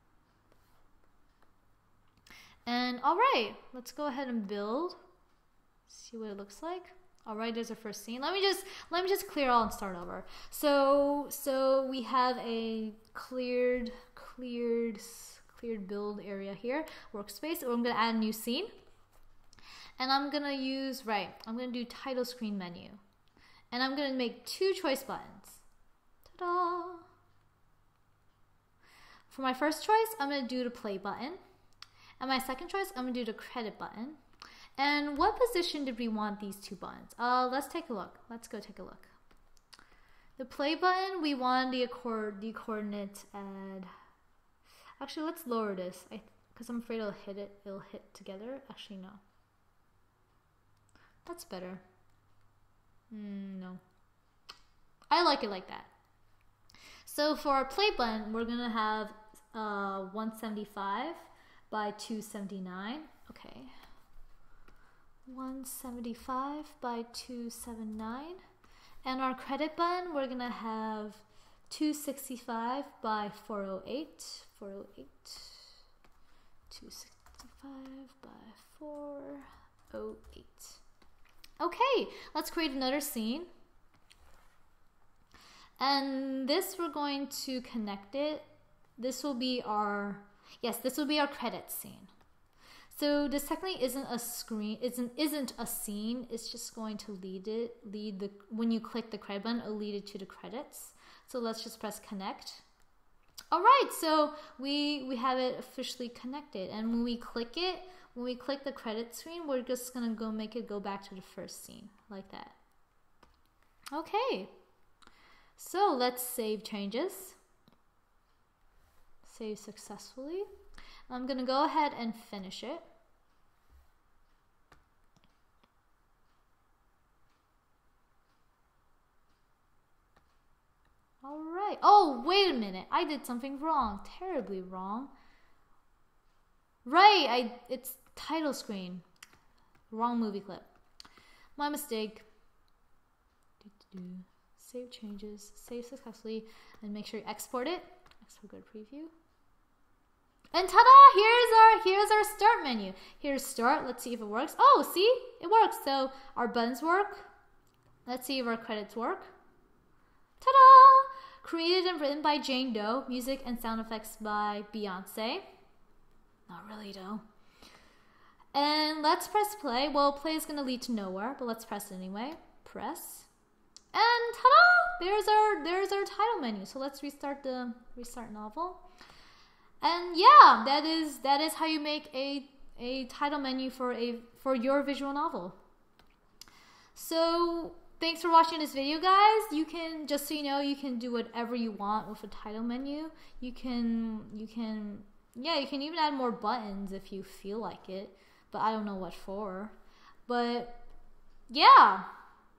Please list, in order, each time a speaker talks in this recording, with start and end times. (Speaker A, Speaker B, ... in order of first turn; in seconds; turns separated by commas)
Speaker A: 2.6-5.0, Speaker A: 5.9-18.7, Speaker A: 20.0-23.0, Speaker A: 23.7-25.6, Speaker A: 26.2-27.1, Speaker A: 29.3-31.4, Speaker A: 32.2-34.2, Speaker A: 34.8-39.1, Speaker A: 40.4-43.9, Speaker A: 45.0-49.2, Speaker A: 51.2-51.8, Speaker A: 53.1-53.8, Speaker A: 55.1-55.9, Speaker A: 57.0-63.7, Speaker A: 65.2-68.4, Speaker A: 69.0-75.8, Speaker A: 76.7-80.8, Speaker A: 81.6-83.5, Speaker A: 85.8-92.1, Speaker A: 92.9-102.6, Speaker A: 103.5-112.6, Speaker A: 113.9-114.5, Speaker A: 115.6-117.4, Speaker A: 119.2-120.5, Speaker A: 121.1-122.9, Speaker A: 131.2-135.1, Speaker A: 136.8-139.0, Speaker A: 139.9-140.7, Speaker A: 141.6-142.2, Speaker A: 143.6-149.1, Speaker A: 150.5-157.3, Speaker A: 158.1-159.3, Speaker A: 160.4-165.5, Speaker A: 166.5-167.2, Speaker A: 168.5-173.3, Speaker A: 173.9-178.8, Speaker A: 179.8-185.6, Speaker A: 186.9-199.8, Speaker A: 200.3-200.8, Speaker A: 201.5-202.1